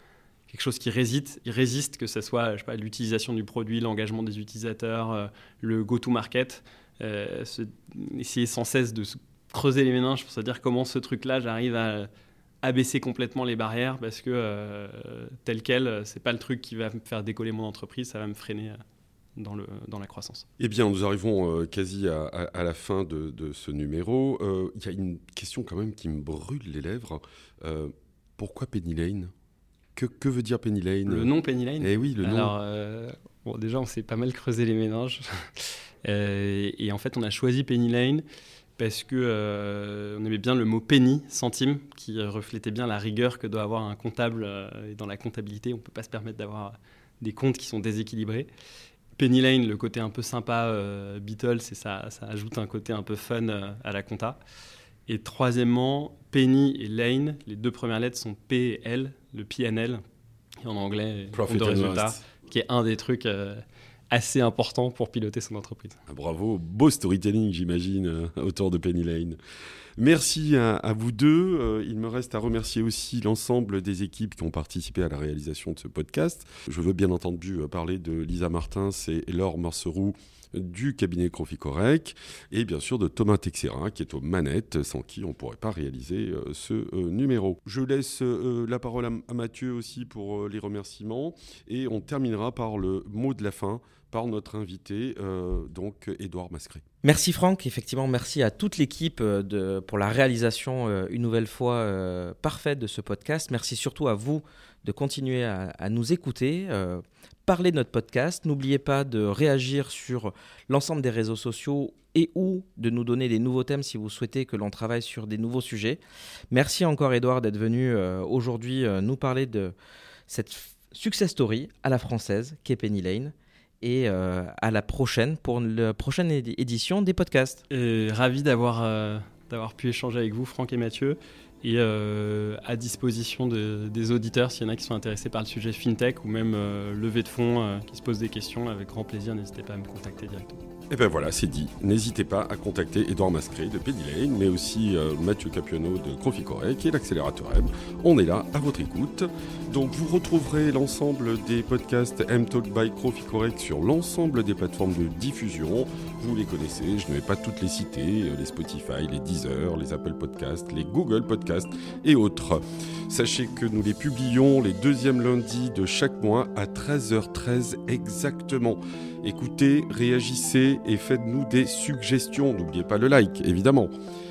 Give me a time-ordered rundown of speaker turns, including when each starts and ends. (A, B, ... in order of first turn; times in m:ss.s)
0:00.5-0:12.1 A
0:12.6-0:18.8 A
0:19.4-0:20.4 A
0:20.6-0:29.3 B
0:30.0-0:32.5 B
0:31.1-0:38.2 A
0:38.8-0:48.5 A
0:49.2-0:54.4 A
0:55.1-1:00.0 A
1:00.6-1:06.0 A
1:01.3-1:02.2 B
1:06.1-1:09.4 B
1:10.0-1:36.8 B
1:37.0-1:59.7 C
2:00.3-2:07.6 C
2:07.7-2:20.6 A
2:20.9-2:53.9 B